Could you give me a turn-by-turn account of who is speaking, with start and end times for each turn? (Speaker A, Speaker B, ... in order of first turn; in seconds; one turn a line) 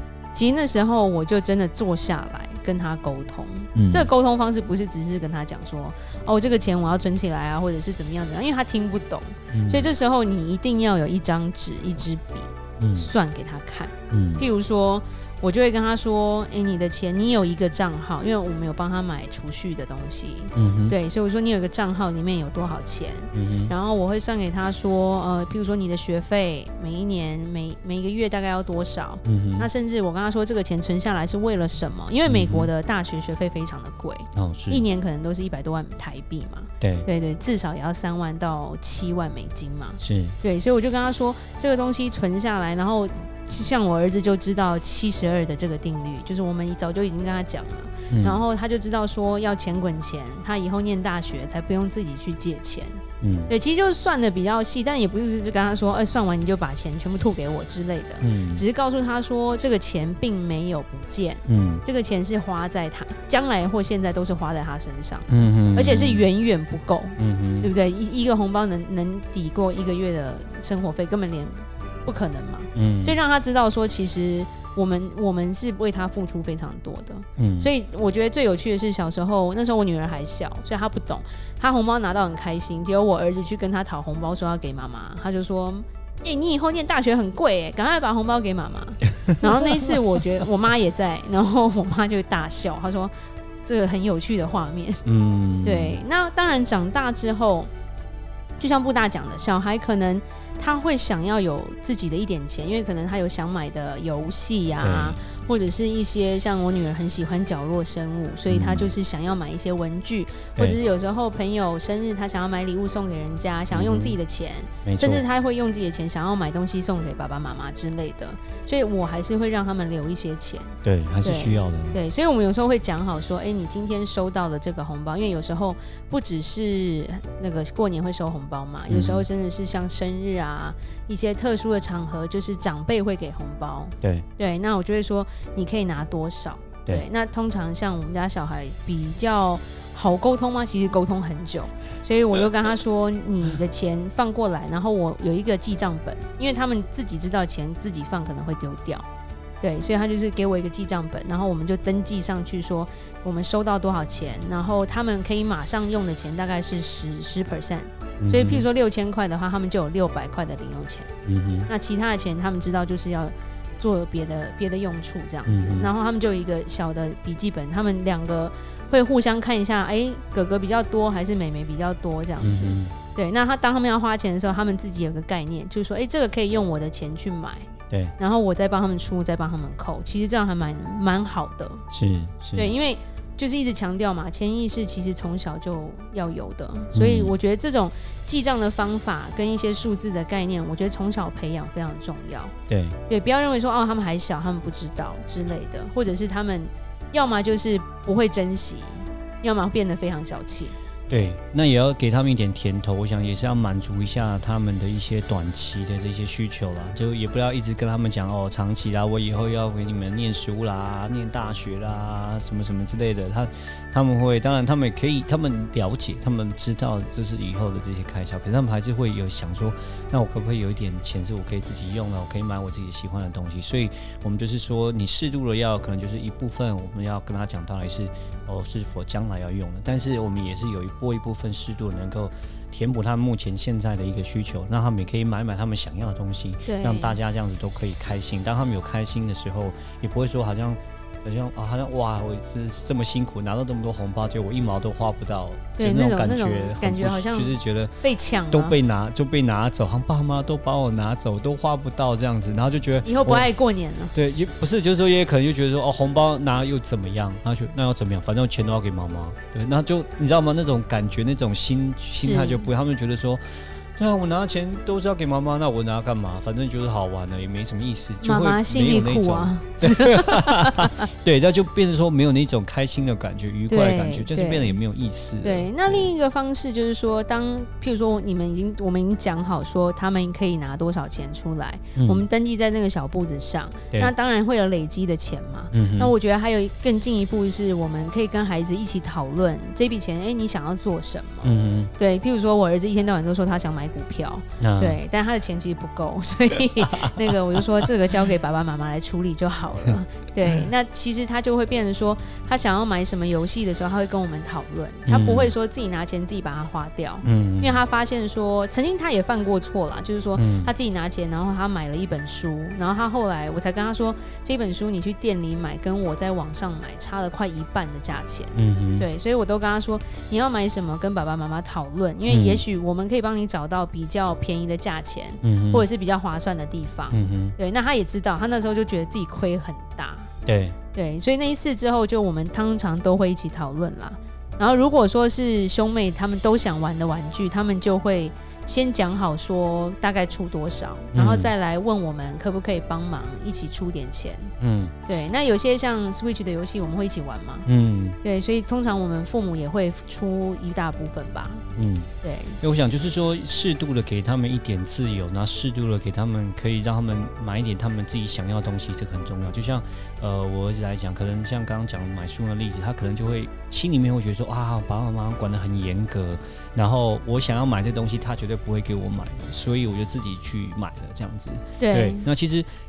Speaker A: 0.3-93.1
Speaker B: 3.7-4.1
Speaker B: 9.5-9.9
Speaker B: 12.8-13.1
Speaker B: 14.1-14.4
Speaker B: 20.6-20.9
Speaker B: 23.3-23.7
Speaker B: 29.2-29.7
Speaker B: 32.2-32.7
Speaker B: 34.4-34.8
Speaker B: 36.8-37.1
Speaker B: 40.0-40.4
Speaker B: 48.1-48.4
Speaker B: 53.2-53.5
Speaker B: 58.2-58.6
Speaker B: 61.5-61.8
Speaker B: 65.3-66.3
Speaker B: 67.2-67.7
Speaker B: 72.7-73.2
Speaker B: 77.4-77.7
Speaker B: 89.6-89.9
Speaker A: 93.7-95.0
Speaker B: 95.0-96.0
Speaker A: 95.6-97.7
Speaker A: 98.6-149.1
Speaker B: 104.8-105.2
Speaker B: 108.5-108.9
Speaker B: 113.7-114.2
Speaker B: 114.8-115.2
Speaker B: 120.8-122.0
Speaker B: 128.9-129.3
Speaker A: 149.6-161.1
Speaker B: 158.2-158.7
Speaker B: 161.3-161.7
Speaker A: 161.7-181.9
Speaker B: 165.5-165.9
Speaker B: 172.4-172.9
Speaker B: 181.9-182.7
Speaker A: 182.5-192.5
Speaker B: 186.9-187.3
Speaker B: 192.7-193.0
Speaker A: 193.1-200.8
Speaker B: 201.1-247.9
Speaker A: 236.7-237.2
Speaker A: 245.8-248.8
Speaker B: 248.5-253.5
Speaker A: 253.0-254.1
Speaker B: 254.1-263.4
Speaker A: 262.2-262.6
Speaker B: 264.0-276.1
Speaker A: 268.2-270.9
Speaker A: 273.7-274.8
Speaker A: 275.4-330.3
Speaker B: 282.0-282.2
Speaker B: 285.7-286.1
Speaker B: 291.4-291.9
Speaker B: 294.6-295.0
Speaker B: 305.1-305.5
Speaker B: 307.2-307.8
Speaker B: 310.4-310.7
Speaker B: 318.6-319.1
Speaker B: 322.3-322.6
Speaker B: 325.4-325.9
Speaker B: 327.1-327.6
Speaker B: 330.5-330.8
Speaker A: 330.9-344.5
Speaker B: 341.1-341.5
Speaker B: 344.6-344.9
Speaker A: 345.1-347.7
Speaker B: 347.7-348.2
Speaker A: 348.2-351.6
Speaker B: 351.8-352.1
Speaker A: 352.2-352.6
Speaker B: 352.6-372.7
Speaker A: 371.8-372.3